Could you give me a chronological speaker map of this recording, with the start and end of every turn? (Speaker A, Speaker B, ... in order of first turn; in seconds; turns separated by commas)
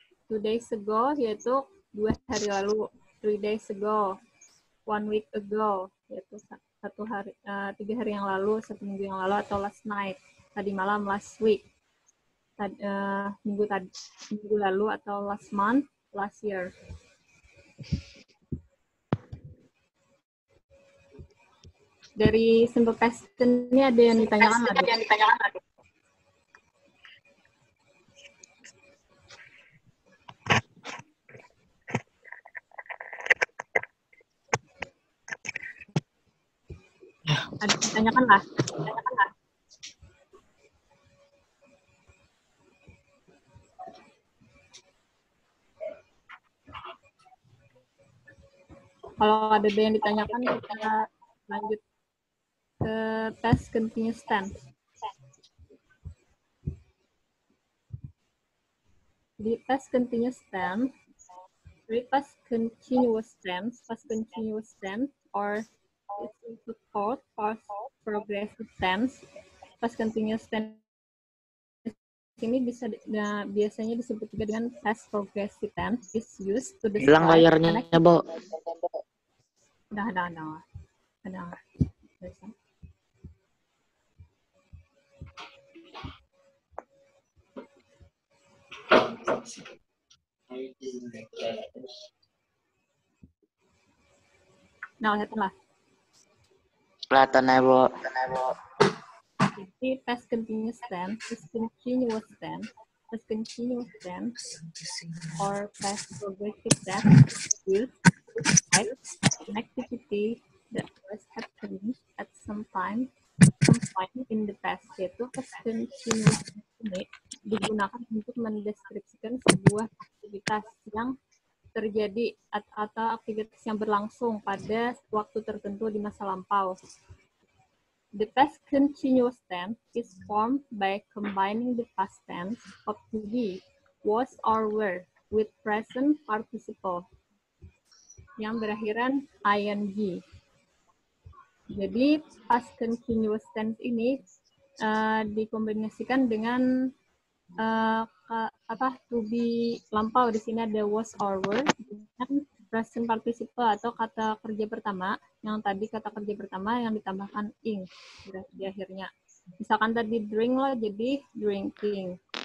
Speaker A: 0.3-4.1, Speaker A: 4.9-11.6, Speaker A: 12.6-16.7, Speaker A: 22.2-25.3, Speaker A: 37.6-39.3, Speaker A: 49.2-51.8, Speaker A: 52.8-54.5, Speaker A: 59.4-60.9, Speaker A: 61.9-69.2, Speaker A: 69.8-70.8, Speaker A: 71.8-78.1, Speaker B: 77.0-78.2, Speaker A: 79.9-80.6, Speaker A: 81.2-81.6, Speaker A: 82.2-82.5, Speaker B: 90.6-91.6, Speaker A: 95.0-95.5, Speaker B: 97.1-98.5, Speaker A: 99.5-104.3, Speaker A: 105.4-113.1, Speaker A: 113.6-121.1, Speaker A: 121.7-126.7, Speaker A: 128.2-137.0, Speaker A: 138.4-140.2, Speaker A: 141.7-144.2, Speaker A: 144.8-146.6, Speaker A: 147.6-162.2